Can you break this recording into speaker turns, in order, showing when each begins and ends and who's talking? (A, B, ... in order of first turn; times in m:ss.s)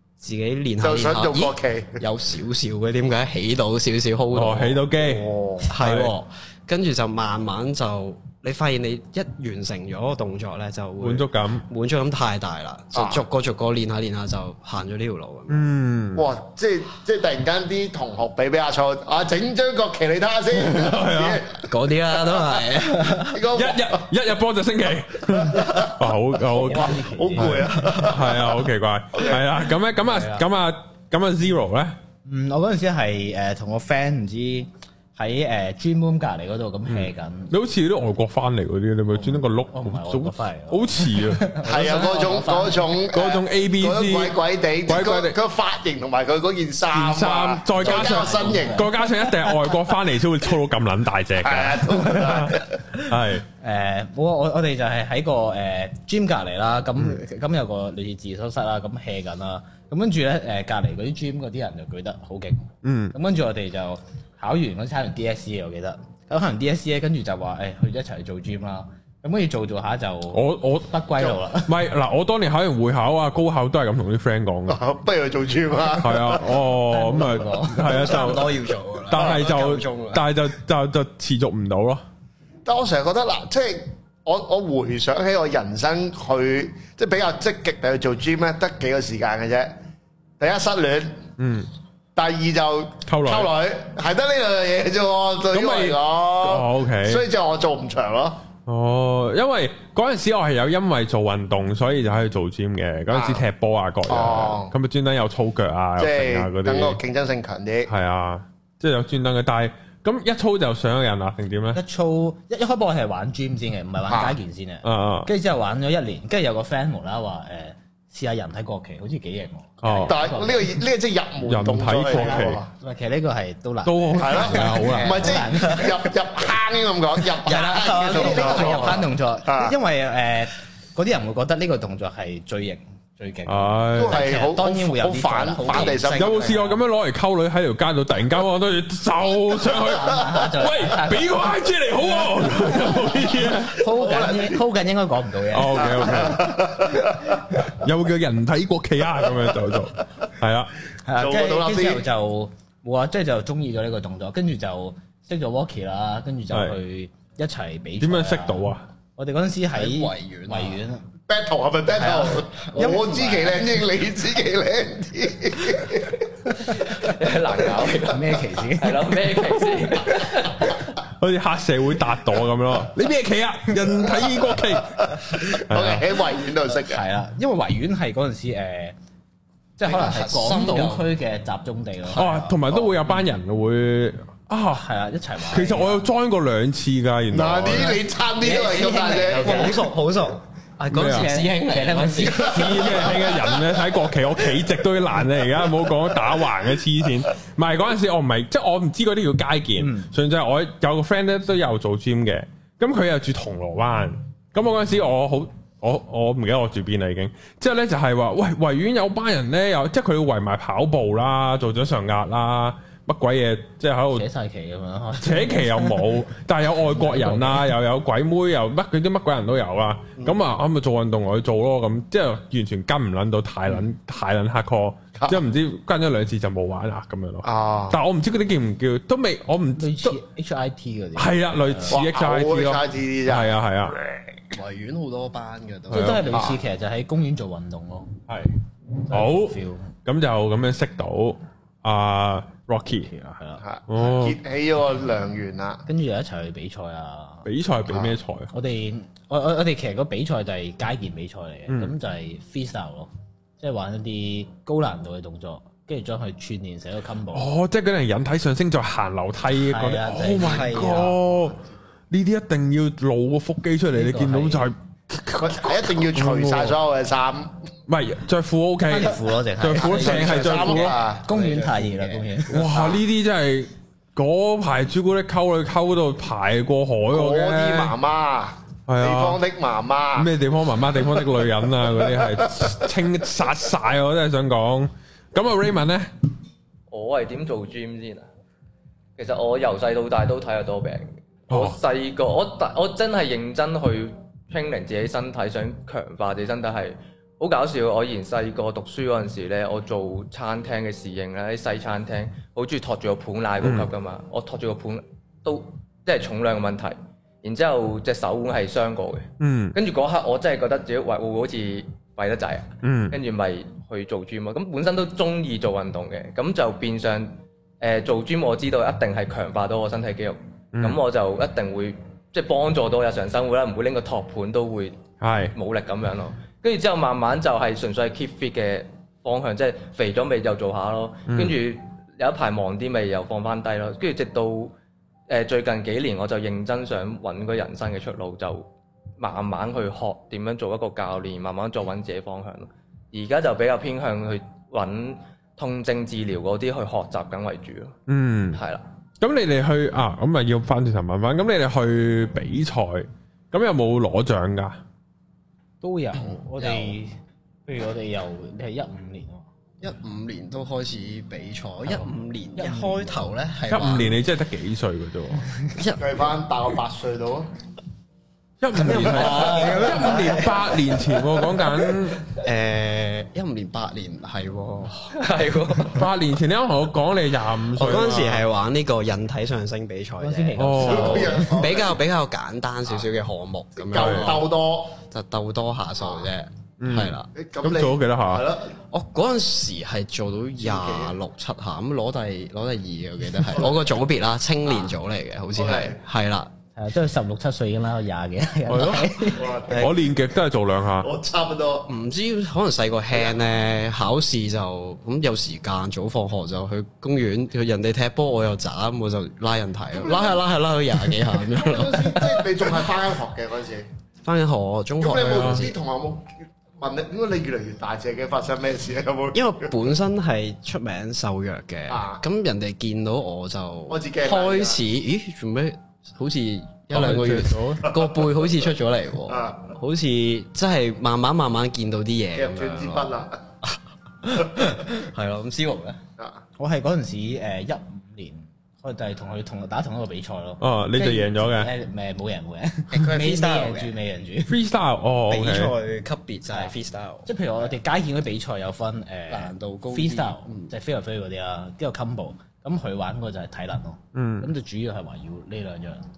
0:00.2-0:04.8 A
0:00.8-0:02.0 B
0:04.3-0:06.1 C
0:05.0-0:05.7 B
0:05.7-0:15.6 A
0:11.0-0:11.7 C
0:12.9-0:13.2 B
0:15.5-0:16.2 C
0:16.1-0:21.6 B
0:20.5-0:21.4 C
0:21.6-0:23.4 A
0:23.3-0:24.0 B
0:23.5-0:32.0 C
0:25.4-0:25.9 B
0:26.5-0:27.9 D
0:26.7-0:28.6 B
0:30.0-0:30.4 D
0:32.2-0:37.5 D
0:36.8-0:41.5 C
0:39.1-0:42.9 D
0:41.6-0:48.9 B
0:43.1-0:44.4 C
0:44.9-0:45.4 C
0:46.9-0:53.4 C
0:47.8-0:49.7 D
0:51.4-0:52.8 B
0:52.0-1:11.8 D
1:02.8-1:03.2 C
1:10.3-1:11.0 C
1:11.6-1:14.8 C
1:14.7-1:16.5 B
1:16.0-1:22.0 C
1:16.8-1:18.2 D
1:17.8-1:20.2 A
1:19.2-1:19.5 B
1:22.6-1:29.7 B
1:30.4-1:31.2 B
1:31.4-1:31.7 C
1:32.2-1:38.4 B
1:33.0-1:33.5 C
1:35.5-1:37.2 C
1:38.7-1:47.0 C
1:43.1-1:43.4 B
1:44.1-1:44.7 B
1:46.0-1:47.9 B
1:47.9-1:51.8 C
1:51.7-2:00.8 D
1:54.1-1:54.4 B
1:54.8-1:55.3 C
1:59.8-2:00.2 C
2:00.0-2:02.7 B
2:01.4-2:02.6 C
2:02.1-2:06.1 D
2:03.8-2:05.4 C
2:04.2-2:09.7 B
2:07.4-2:09.1 A
2:07.4-2:16.8 D
2:13.5-2:14.3 C
2:13.9-2:16.4 B
2:15.8-2:16.2 A
2:16.1-2:23.8 C
2:19.7-2:21.6 D
2:22.4-2:22.9 D
2:22.6-2:24.6 B
2:23.7-2:26.7 D
2:25.5-2:26.8 C
2:25.8-2:27.3 B
2:27.6-2:30.7 C
2:31.0-2:41.0 D
2:31.2-2:32.0 B
2:36.5-2:36.8 C
2:38.0-2:38.8 C
2:39.7-2:40.8 A
2:41.3-2:46.5 B
2:41.9-2:43.7 D
2:46.7-2:50.8 E
2:48.0-2:49.6 D
2:51.0-2:56.0 C
2:55.6-2:57.0 B
2:56.7-2:59.0 D
2:59.8-3:02.6 D
2:59.8-3:01.1 A
3:02.1-3:04.8 C
3:02.4-3:02.9 A
3:04.7-3:06.0 D
3:05.5-3:08.0 C
3:07.3-3:09.8 B
3:08.4-3:12.8 A
3:08.4-3:09.8 D
3:10.9-3:11.3 C
3:10.9-3:13.3 D
3:12.4-3:34.3 C
3:19.8-3:20.1 D
3:34.1-3:36.2 D
3:35.2-3:50.2 C
3:36.9-3:37.7 D
3:47.4-3:48.0 B
3:49.8-3:52.0 D
3:51.2-3:54.0 C
3:51.9-3:54.2 B
3:54.5-3:56.5 A
3:55.9-3:58.2 D
3:56.0-3:56.2 C
3:56.3-3:56.6 B
3:58.3-3:58.5 C
3:59.1-3:59.9 D
3:59.1-4:03.1 C
4:03.0-4:03.6 D
4:03.6-4:05.8 B
4:03.9-4:04.4 C
4:05.8-4:07.5 D
4:07.4-4:08.5 C
4:07.9-4:08.1 B
4:08.5-4:17.5 D
4:11.7-4:11.9 C
4:17.3-4:21.6 C
4:19.6-4:21.3 D
4:20.4-4:21.1 A
4:22.1-4:26.8 C
4:23.9-4:24.7 D
4:25.4-4:27.6 B
4:27.9-4:31.0 C
4:28.9-4:32.8 D
4:29.8-4:31.2 B
4:31.0-4:32.3 A
4:32.5-4:38.0 C
4:32.7-4:33.0 B
4:37.1-4:40.3 B
4:38.9-4:39.4 C
4:40.2-4:46.1 C
4:46.9-4:48.3 E
4:49.2-5:25.0 E
4:51.5-4:51.8 C
5:03.6-5:03.9 C
5:09.4-5:09.8 C
5:12.8-5:13.2 C
5:20.7-5:21.0 C
5:25.2-5:25.5 C
5:25.5-5:34.7 E
5:31.3-5:31.6 C
5:35.3-5:38.7 E
5:39.2-5:47.9 E
5:48.1-5:48.6 C
5:48.5-5:48.8 E
5:49.2-5:54.8 C
5:55.8-5:59.5 D
5:56.6-5:57.0 A
5:59.8-6:04.2 A
6:02.6-6:03.3 D
6:03.7-6:05.4 C
6:05.8-6:06.2 A
6:06.0-6:07.5 B
6:08.6-6:12.2 C
6:08.8-6:10.7 A
6:09.0-6:10.5 D
6:12.2-6:15.1 A
6:15.1-6:16.0 E
6:15.9-6:18.4 C
6:17.8-6:24.5 A
6:20.2-6:21.7 D
6:20.6-6:21.4 C
6:20.9-6:22.0 B
6:23.8-6:25.0 B
6:23.9-6:24.4 C
6:25.0-6:27.3 A
6:26.8-6:28.5 C
6:27.3-6:28.7 B
6:28.9-6:36.5 A
6:30.6-6:31.1 B
6:35.6-6:35.9 B
6:36.8-6:39.6 D
6:38.7-6:39.2 C
6:39.3-6:40.0 B
6:39.7-6:40.0 A
6:39.7-6:41.1 C
6:41.0-6:41.9 B
6:41.9-6:52.6 A
6:50.0-6:50.3 B
6:51.5-6:53.9 B
6:54.2-6:55.8 A
6:55.0-6:59.7 B
6:55.2-6:55.6 C
6:59.3-7:13.1 A
7:01.9-7:02.2 B
7:03.9-7:04.8 B
7:06.9-7:07.8 D
7:07.0-7:07.5 C
7:07.8-7:08.2 B
7:09.3-7:09.7 B
7:12.3-7:13.4 B
7:13.6-7:16.0 A
7:16.6-7:24.6 D
7:20.6-7:21.7 C
7:22.9-7:24.0 A
7:24.4-7:25.8 C
7:25.3-7:27.3 A
7:27.2-7:36.1 D
7:29.3-7:30.7 A
7:34.1-7:34.5 C